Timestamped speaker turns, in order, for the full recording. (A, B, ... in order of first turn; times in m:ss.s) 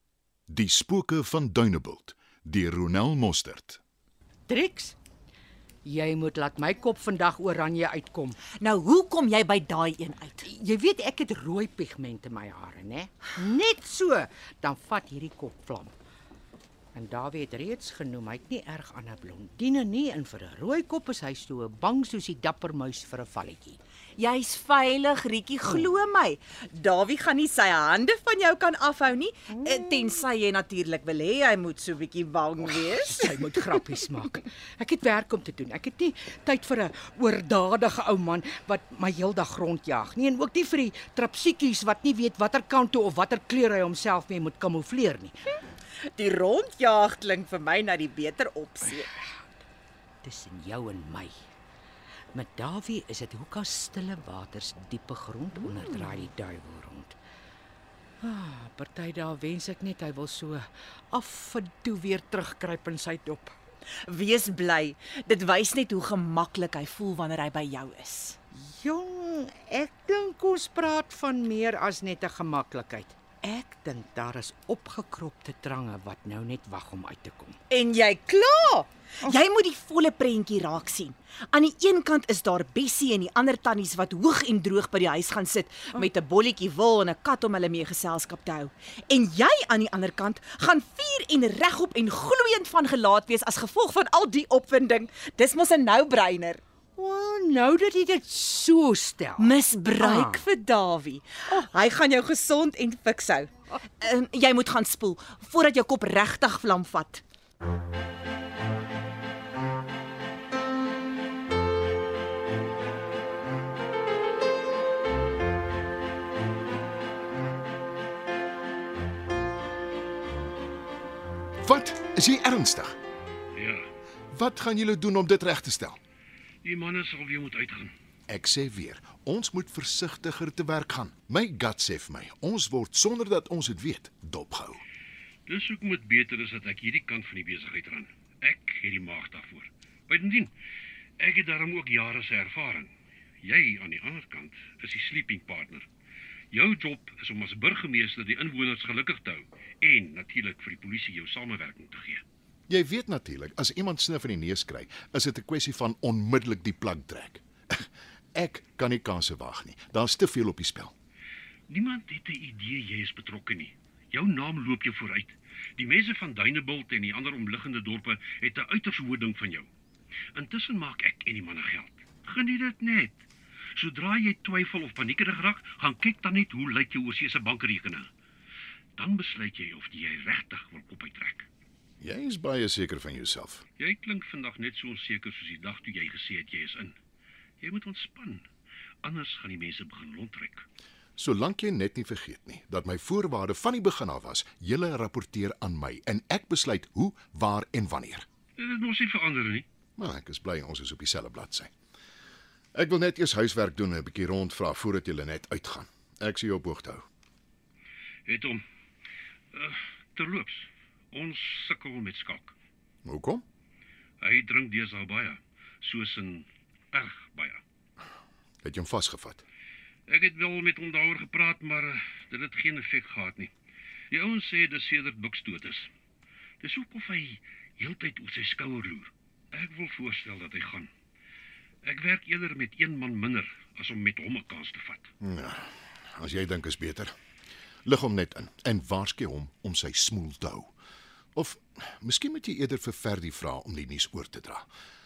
0:00.5-0:03.8 A
0:04.5-0:05.0 B
0:05.8-0:08.4 B
0:08.6-0:10.4 C
0:10.4-0:15.9 B
0:16.9-0:23.8 B
0:24.2-0:33.2 C
0:29.5-0:30.2 B
0:32.7-0:45.4 B
0:46.1-0:49.1 C
0:50.2-0:51.3 B
0:52.3-0:57.2 B
0:58.2-1:03.5 B
1:04.1-1:08.4 C
1:08.5-1:17.6 B
1:17.7-1:36.6 C
1:37.0-1:40.4 B
1:39.4-1:47.2 C
2:01.6-2:03.0 A
2:03.5-2:03.8 D
2:04.3-2:06.0 A
2:06.6-2:07.9 D
2:08.3-2:14.8 A
2:15.5-2:20.5 D
2:21.2-2:22.9 D
2:23.4-2:25.8 D
2:26.5-2:32.2 D
2:32.7-2:40.9 A
2:41.7-2:49.7 D
2:50.3-2:53.2 D
2:53.8-2:58.1 D
2:59.0-3:01.4 D
3:02.0-3:03.6 A
3:03.8-3:07.0 D
3:07.6-3:08.4 D
3:09.0-3:10.6 D
3:11.2-3:18.2 A
3:18.6-3:19.6 D
3:20.0-3:21.7 A
3:22.7-3:27.0 A
3:28.2-3:28.6 D
3:29.5-3:32.5 D
3:33.0-3:33.4 A
3:34.2-3:37.6 D
3:38.6-3:39.4 A
3:40.1-3:43.5 D
3:44.1-3:45.9 D
3:46.6-3:50.9 D
3:51.8-3:55.1 D
3:55.2-3:57.1 A
3:57.8-4:00.7 A
4:01.3-4:04.7 A